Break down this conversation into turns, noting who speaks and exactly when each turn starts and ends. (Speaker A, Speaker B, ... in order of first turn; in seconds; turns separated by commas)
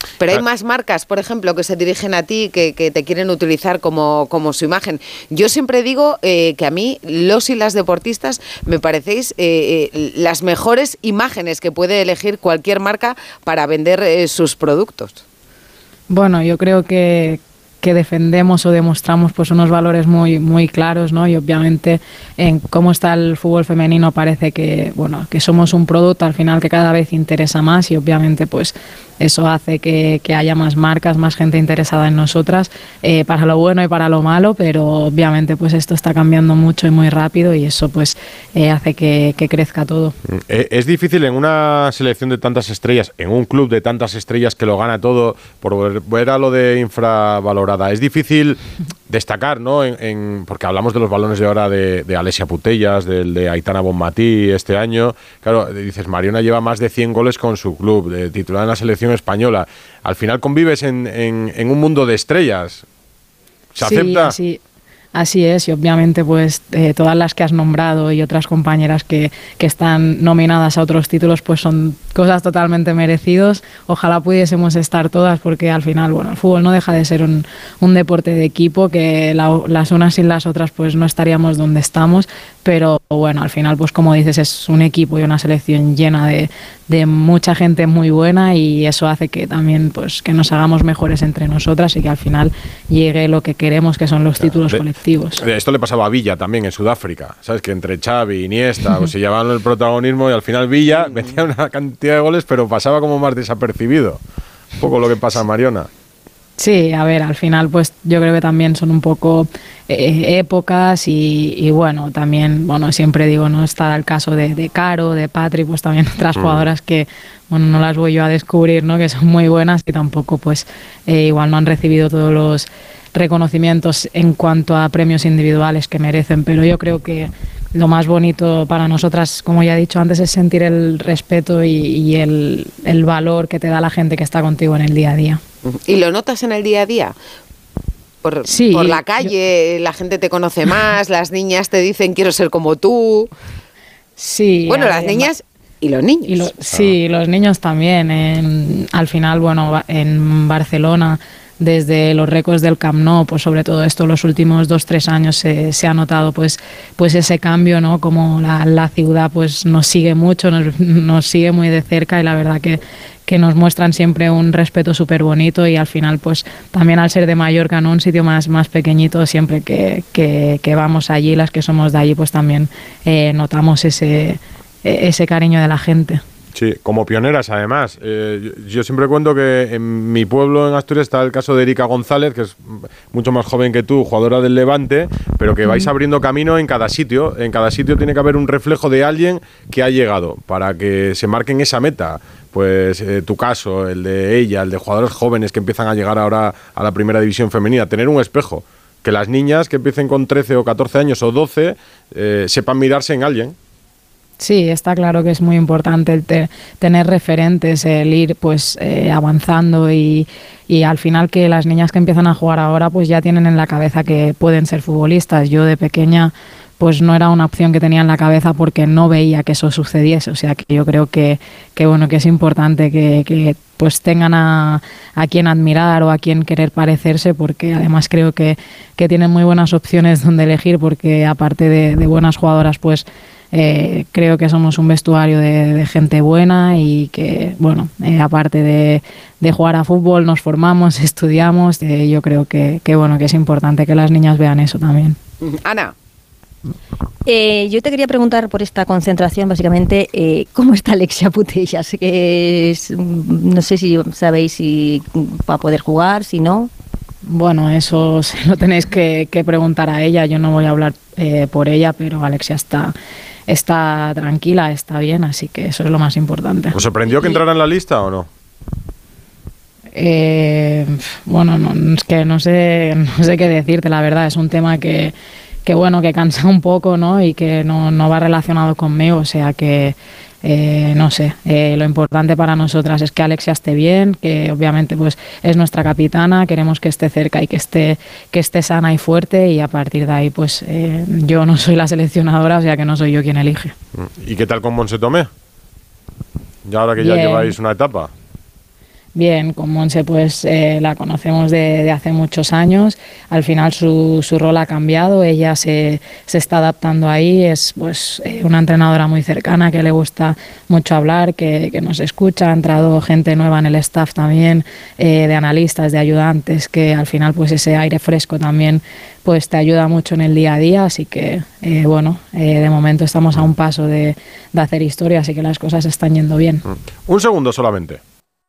Speaker A: 0.2-15.2, Speaker B: 16.1-40.1, Speaker C: 40.3-62.8, Speaker C: 63.8-64.3, Speaker B: 63.8-64.6, Speaker B: 65.2-95.4, Speaker C: 94.4-94.8, Speaker C: 95.4-104.2, Speaker A: 100.9-101.4, Speaker C: 104.8-105.9, Speaker B: 106.6-135.4, Speaker C: 116.4-116.7, Speaker A: 135.6-137.1, Speaker A: 138.2-143.3, Speaker B: 138.5-139.1, Speaker B: 144.2-145.3, Speaker A: 144.7-146.5, Speaker B: 146.3-176.2, Speaker C: 176.5-203.5, Speaker B: 185.6-185.9, Speaker B: 204.4-245.2, Speaker A: 245.4-245.9, Speaker D: 247.2-256.7, Speaker B: 257.3-262.9, Speaker B: 263.5-267.3, Speaker C: 266.7-268.3, Speaker B: 269.9-275.1, Speaker B: 275.6-293.7, Speaker C: 293.9-295.3, Speaker C: 296.6-298.1, Speaker B: 297.0-297.5, Speaker B: 299.1-326.6, Speaker C: 326.7-328.0